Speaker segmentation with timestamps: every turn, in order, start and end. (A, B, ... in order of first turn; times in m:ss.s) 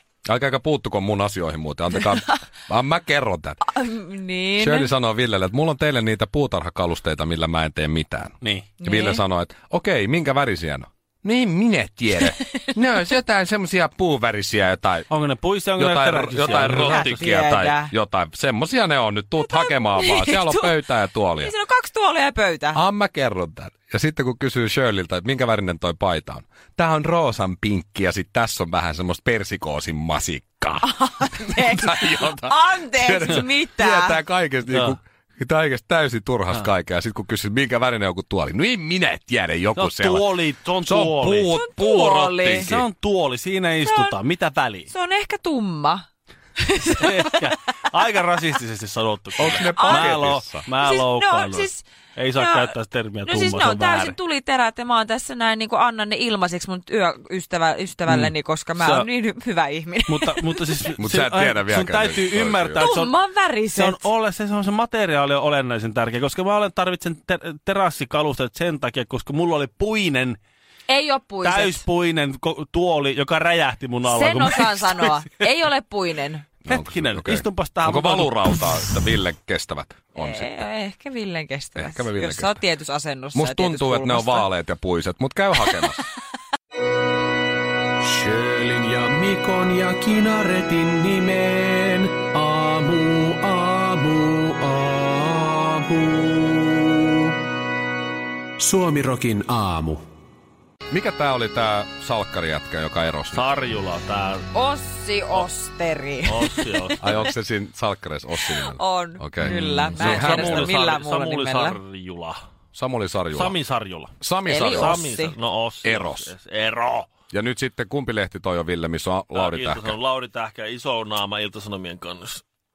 0:00.3-0:03.6 A
0:03.6-0:04.9 B
0:04.6-0:15.1 A
0:08.4-0:08.7 C
0:08.8-0:09.2 B
0:15.1-0:17.2 C
0:15.8-0:21.5 A
0:16.6-0:17.9 B
0:19.5-0:20.8 B
0:21.4-0:22.8 B
0:22.7-0:42.9 A
0:30.8-0:34.2 B
0:34.7-0:35.0 C
0:39.8-0:41.5 C
0:41.5-0:42.7 B
0:42.6-0:44.9 C
0:43.8-0:44.2 B
0:44.9-0:46.0 B
0:46.6-0:47.2 B
0:47.0-0:54.2 C
0:49.4-0:50.6 A
0:49.5-0:52.7 B
0:53.2-1:00.9 B
0:58.1-0:59.1 C
1:00.1-1:03.1 C
1:01.0-1:02.9 A
1:02.8-1:04.0 B
1:03.7-1:10.4 C
1:10.9-1:11.8 B
1:11.4-1:15.5 C
1:14.0-1:16.5 B
1:16.6-1:20.6 A
1:16.7-1:18.7 C
1:20.2-1:24.5 B
1:21.8-1:22.6 A
1:23.4-1:26.0 A
1:28.0-1:37.0 D
1:38.6-1:40.0 D
1:40.9-1:43.5 A
1:43.3-1:44.5 C
1:44.5-1:47.3 B
1:46.2-1:47.0 C
1:47.0-1:50.8 A
1:48.6-1:51.8 B
1:49.4-1:52.4 C
1:52.7-1:53.6 A
1:53.3-1:57.1 C
1:54.2-1:55.1 A
1:54.5-1:55.3 B
1:55.8-1:56.3 A
1:57.3-2:00.0 A
1:59.3-2:02.4 C